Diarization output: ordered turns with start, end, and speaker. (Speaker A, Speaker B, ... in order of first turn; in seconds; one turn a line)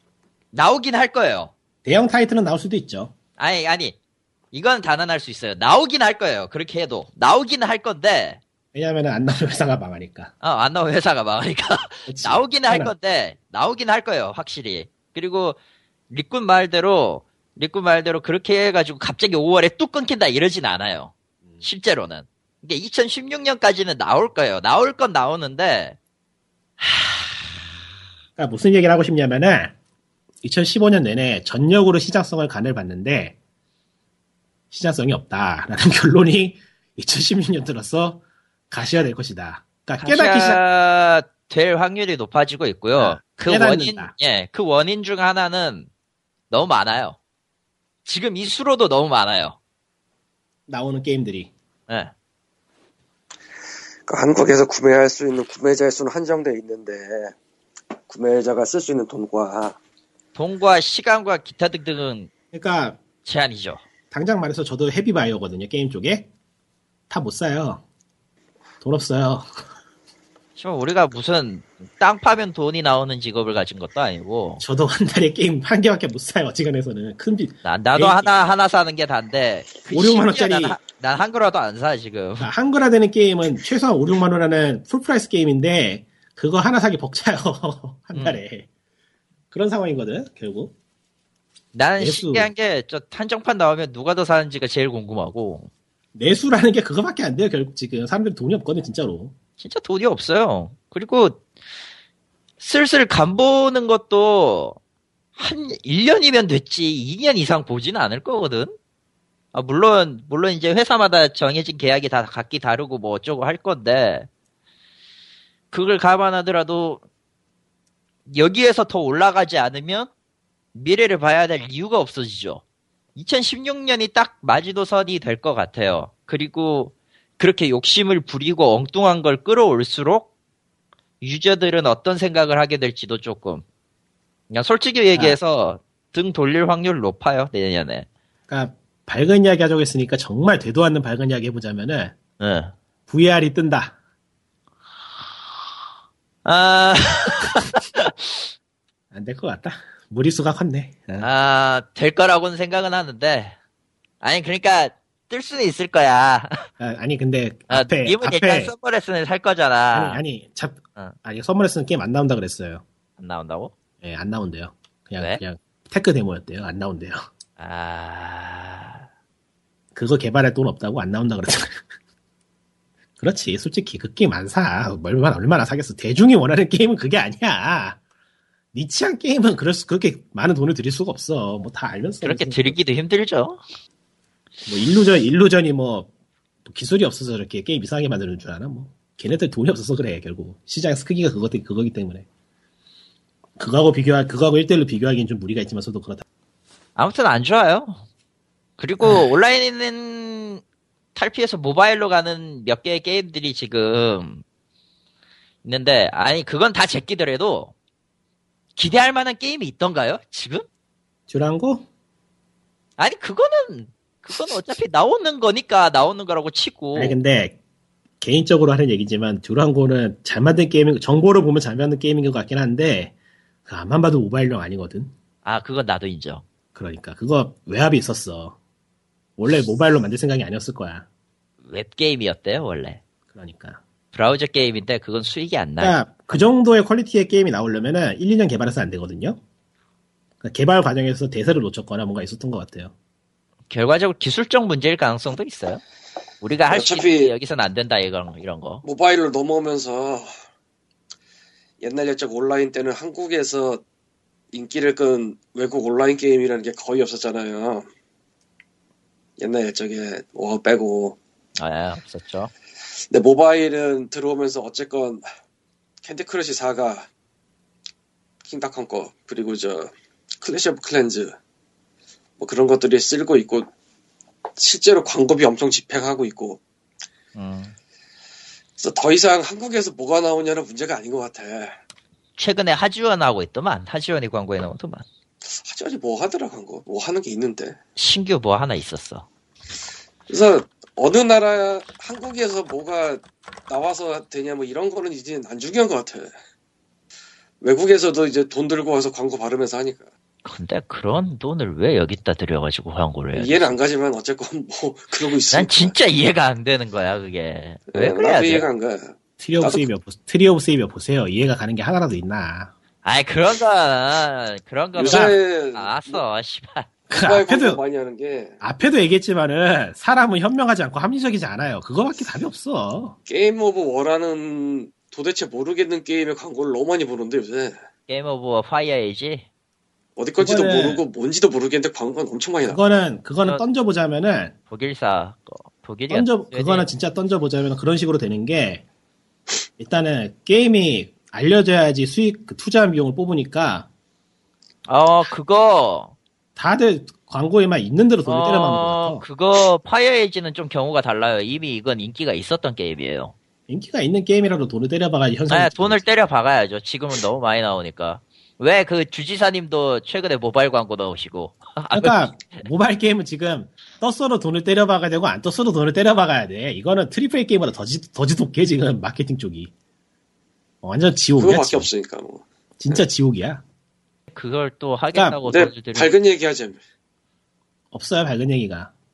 Speaker A: 0.5-1.5
Speaker B: 1.8-3.1
Speaker A: 3.4-4.0
Speaker A: 4.5-8.4
Speaker B: 8.7-10.3
Speaker A: 10.4-15.6
Speaker B: 12.1-12.9
Speaker A: 16.1-26.0
Speaker A: 26.8-27.2
Speaker B: 28.4-29.7
Speaker B: 30.4-33.4
Speaker B: 34.7-40.6
Speaker A: 40.0-45.9
Speaker B: 42.9-44.1
Speaker A: 46.5-47.2
Speaker A: 48.0-49.6
Speaker B: 50.7-51.5
Speaker A: 51.9-52.1
Speaker C: 54.1-57.3
Speaker C: 58.1-59.8
Speaker A: 60.3-62.3
Speaker B: 62.5-63.0
Speaker A: 63.2-63.8
Speaker B: 64.1-66.3
Speaker B: 67.1-67.8
Speaker B: 68.8-69.5
Speaker A: 70.6-74.6
Speaker B: 74.6-78.3
Speaker A: 77.6-82.5
Speaker B: 79.9-80.8
Speaker B: 82.4-88.7
Speaker A: 88.1-88.4
Speaker B: 89.5-90.7
Speaker A: 91.7-95.7
Speaker B: 92.0-92.5
Speaker B: 96.1-99.3
Speaker A: 99.6-101.4
Speaker A: 102.6-104.8
Speaker A: 105.3-108.8
Speaker A: 109.5-114.3
Speaker A: 115.7-117.0
Speaker A: 118.3-120.1
Speaker A: 120.7-122.6
Speaker A: 123.2-130.3
Speaker A: 131.2-133.6
Speaker A: 134.5-138.1
Speaker B: 138.5-142.2
Speaker A: 142.4-142.7
Speaker B: 143.1-144.0
Speaker A: 146.4-148.4
Speaker B: 149.1-151.3
Speaker A: 151.2-153.6
Speaker A: 154.2-156.7
Speaker B: 156.8-158.7
Speaker A: 157.7-160.2
Speaker B: 159.9-162.8
Speaker A: 163.2-163.7
Speaker B: 164.0-167.2
Speaker A: 167.6-169.1
Speaker B: 169.9-171.8
Speaker B: 173.2-178.0
Speaker B: 178.7-182.8
Speaker A: 182.2-183.6
Speaker B: 184.7-186.1
Speaker B: 186.6-192.2
Speaker B: 193.6-196.2
Speaker A: 196.9-198.0
Speaker A: 198.8-200.6
Speaker A: 201.1-204.4
Speaker A: 205.6-207.7
Speaker A: 208.8-210.7
Speaker B: 211.3-211.8
Speaker A: 213.0-217.2
Speaker B: 216.9-217.6
Speaker B: 218.2-223.1
Speaker B: 223.7-225.1
Speaker A: 225.4-226.4
Speaker B: 226.7-228.6
Speaker B: 229.4-231.1
Speaker A: 231.7-233.0
Speaker B: 233.3-233.8
Speaker A: 234.1-236.4
Speaker B: 235.8-239.4
Speaker B: 240.4-242.9
Speaker A: 243.7-245.8
Speaker A: 246.4-248.8
Speaker C: 246.7-247.3
Speaker C: 248.8-250.3
Speaker C: 251.8-253.8
Speaker C: 254.5-257.9
Speaker C: 259.4-261.2
Speaker A: 261.6-262.5
Speaker C: 263.1-265.2
Speaker C: 266.0-267.1
Speaker C: 268.4-271.3
Speaker C: 272.4-273.7
Speaker C: 274.6-276.6
Speaker A: 277.4-277.7
Speaker C: 278.8-281.7
Speaker A: 282.4-285.0
Speaker C: 285.5-287.8
Speaker A: 288.0-289.3
Speaker C: 290.3-296.3
Speaker C: 297.6-300.1
Speaker A: 300.4-303.8
Speaker C: 303.3-305.9
Speaker A: 305.5-308.6
Speaker C: 307.9-309.9
Speaker B: 309.4-312.7
Speaker A: 313.0-316.9
Speaker C: 314.9-316.2
Speaker B: 315.1-315.4
Speaker B: 317.1-317.8
Speaker C: 317.1-318.6
Speaker B: 318.6-323.2
Speaker C: 323.3-327.8
Speaker A: 328.1-329.4
Speaker C: 330.2-332.8
Speaker B: 330.4-331.0
Speaker B: 332.7-334.5
Speaker A: 334.7-336.9
Speaker B: 336.1-338.8
Speaker B: 339.8-343.9
Speaker A: 344.9-346.1
Speaker B: 346.6-349.2
Speaker A: 348.2-353.3
Speaker B: 353.7-356.1
Speaker A: 355.5-362.6
Speaker B: 361.9-369.7
Speaker B: 370.8-371.9
Speaker C: 371.4-373.0
Speaker B: 372.8-373.6
Speaker A: 374.3-376.1
Speaker B: 375.1-375.4
Speaker C: 375.5-376.8
Speaker B: 377.9-378.9